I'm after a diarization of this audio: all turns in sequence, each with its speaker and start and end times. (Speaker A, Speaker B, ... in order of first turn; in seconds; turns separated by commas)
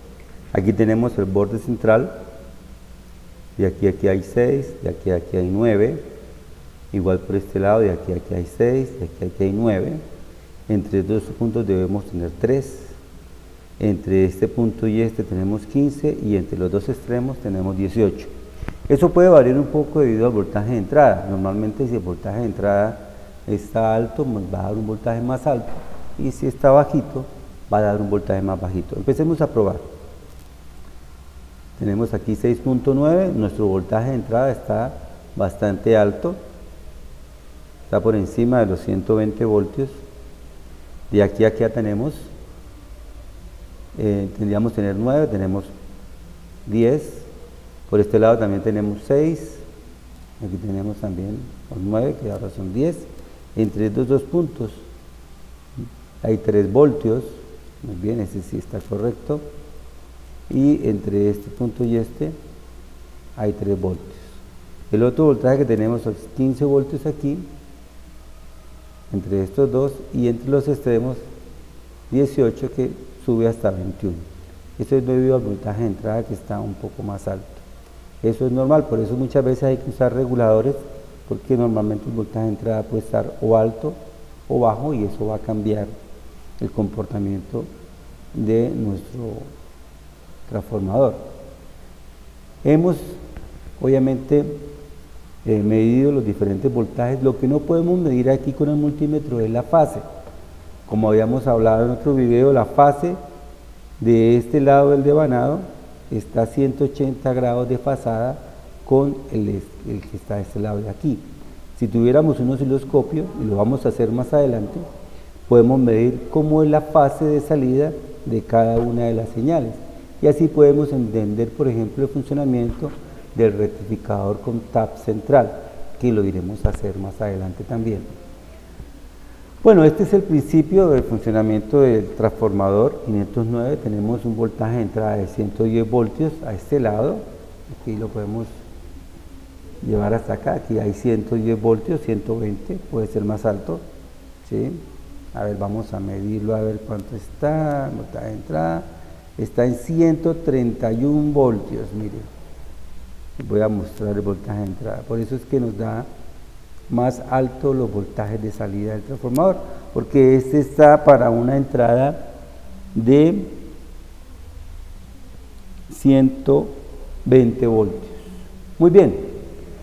Speaker A: 0.5-2.1, Speaker A: 3.6-6.0, Speaker A: 6.9-10.0, Speaker A: 10.7-12.9, Speaker A: 13.8-18.3, Speaker A: 18.9-29.8, Speaker A: 31.8-36.4, Speaker A: 37.9-40.0, Speaker A: 41.1-42.3, Speaker A: 44.0-45.7, Speaker A: 46.7-47.3, Speaker A: 47.9-49.6, Speaker A: 50.4-54.8, Speaker A: 56.2-59.4, Speaker A: 60.5-62.4, Speaker A: 63.4-64.2, Speaker A: 64.9-67.5, Speaker A: 69.1-71.3, Speaker A: 72.1-77.6, Speaker A: 78.2-84.0, Speaker A: 84.5-85.9, Speaker A: 86.6-87.7, Speaker A: 88.3-89.5, Speaker A: 90.5-91.3, Speaker A: 92.6-93.2, Speaker A: 93.8-94.7, Speaker A: 95.5-100.0, Speaker A: 100.9-103.2, Speaker A: 104.0-111.2, Speaker A: 111.8-114.9, Speaker A: 115.5-128.1, Speaker A: 129.6-138.5, Speaker A: 139.8-143.8, Speaker A: 144.4-144.8, Speaker A: 145.3-148.9, Speaker A: 149.4-152.3, Speaker A: 153.4-156.1, Speaker A: 156.9-162.2, Speaker A: 162.9-163.6, Speaker A: 165.9-168.2, Speaker A: 168.8-169.3